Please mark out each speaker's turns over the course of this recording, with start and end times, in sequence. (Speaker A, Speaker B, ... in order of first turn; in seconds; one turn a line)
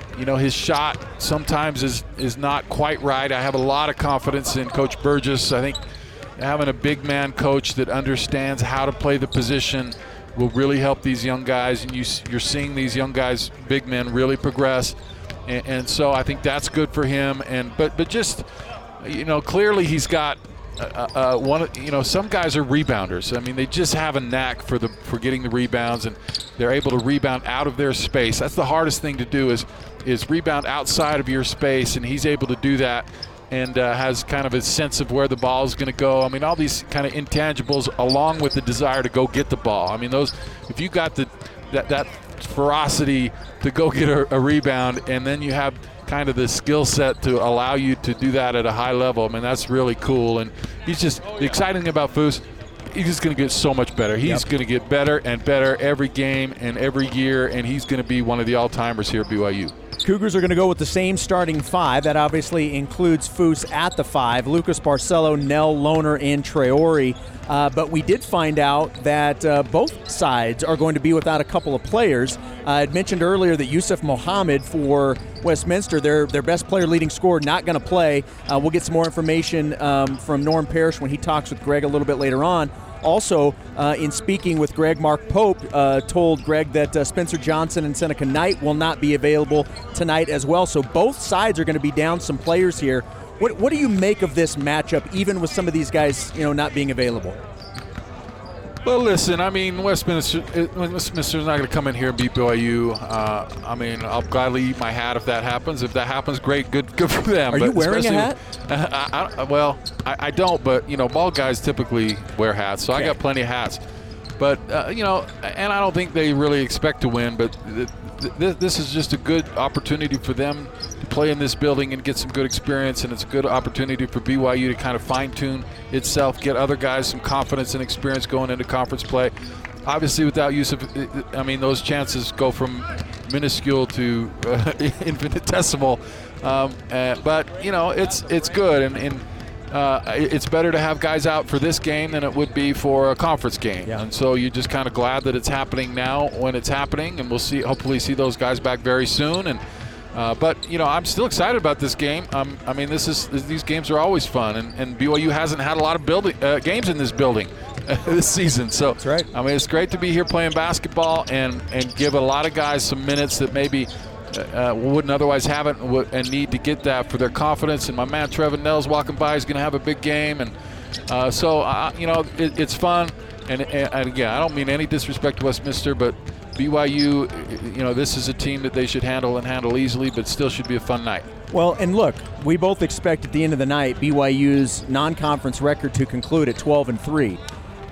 Speaker A: 0.1-5.8
Speaker A: 6.4-14.9
Speaker A: 15.4-18.4
Speaker A: 19.0-59.7
Speaker B: 60.0-97.4
Speaker A: 98.8-113.8
Speaker B: 107.5-108.3
Speaker A: 114.4-129.3
Speaker A: 129.8-149.6
Speaker A: 150.1-170.5
Speaker B: 159.0-159.3
Speaker A: 171.1-181.3
Speaker B: 181.5-187.4